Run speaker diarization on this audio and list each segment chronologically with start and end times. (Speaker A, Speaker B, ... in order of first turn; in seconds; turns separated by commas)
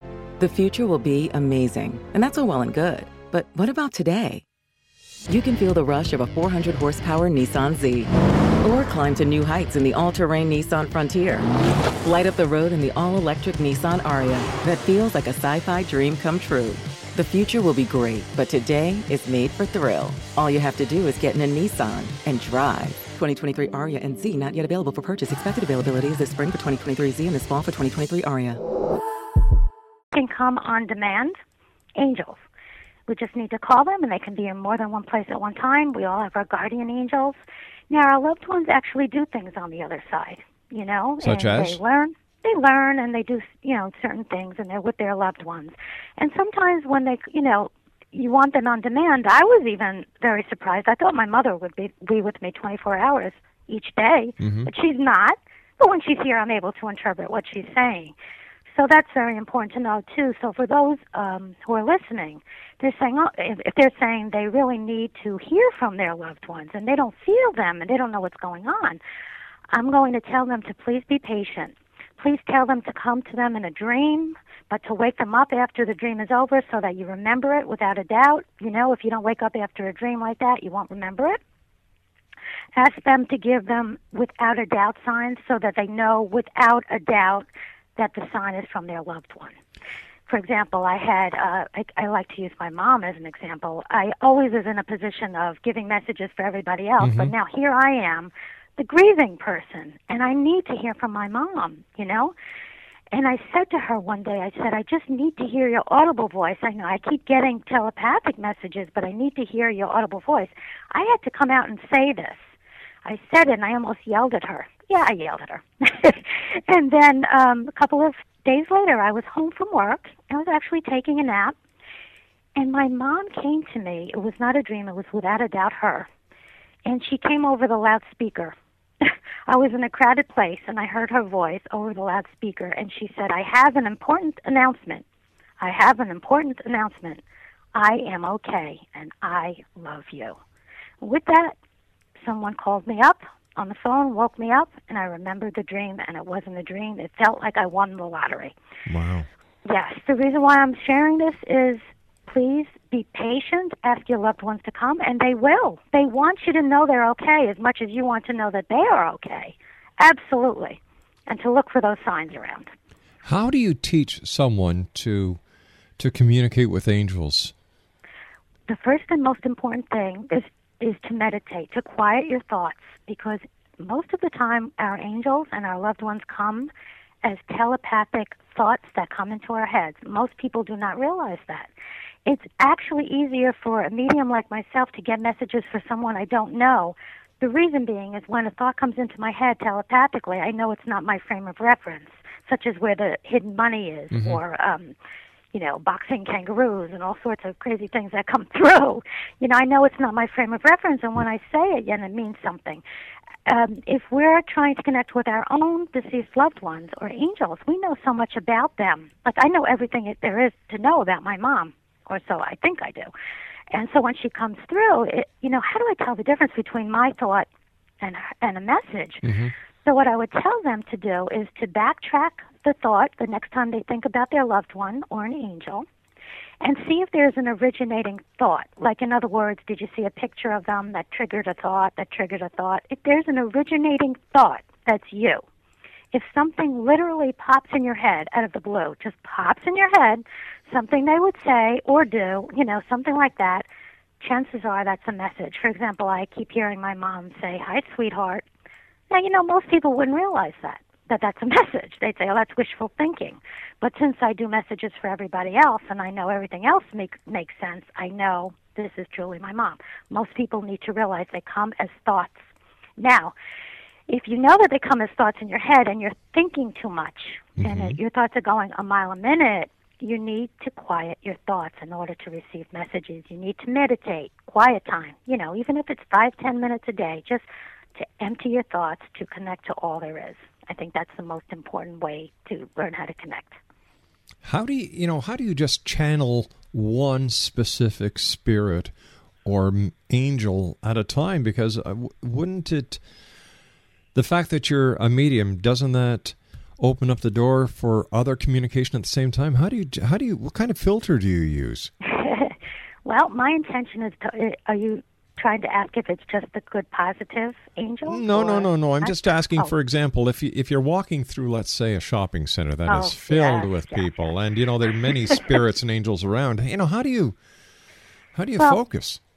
Speaker A: 0.4-4.4, Speaker A: 5.3-8.1, Speaker A: 8.6-11.5, Speaker A: 12.0-28.6, Speaker B: 30.1-31.4, Speaker B: 32.0-32.4, Speaker B: 33.1-37.4, Speaker B: 37.9-58.1, Speaker C: 41.2-41.8, Speaker C: 54.4-54.7, Speaker B: 58.7-69.0, Speaker B: 69.7-81.4, Speaker B: 82.8-89.6, Speaker B: 90.3-102.3, Speaker C: 97.0-97.3, Speaker B: 103.1-112.5, Speaker B: 113.0-121.5, Speaker B: 122.6-126.1, Speaker B: 126.8-135.1, Speaker B: 135.6-137.2, Speaker B: 137.8-140.4, Speaker B: 141.0-141.6, Speaker B: 142.2-148.5, Speaker C: 148.9-149.3, Speaker B: 149.7-162.7, Speaker C: 163.2-165.4, Speaker C: 166.0-167.5, Speaker B: 168.7-176.7, Speaker B: 177.2-181.7, Speaker B: 182.3-194.9, Speaker C: 194.1-194.4, Speaker B: 195.5-202.8, Speaker B: 203.5-213.1, Speaker B: 213.7-217.5, Speaker B: 218.0-219.3, Speaker C: 219.2-219.5, Speaker B: 219.8-225.9, Speaker B: 226.6-235.4, Speaker B: 236.1-243.7, Speaker B: 244.2-248.4, Speaker B: 249.1-263.3, Speaker B: 264.1-283.6, Speaker C: 267.6-268.0, Speaker C: 284.4-288.9, Speaker C: 289.4-293.0, Speaker C: 294.1-301.9, Speaker B: 302.1-309.7, Speaker C: 308.1-317.4, Speaker B: 312.9-314.3, Speaker C: 318.4-319.2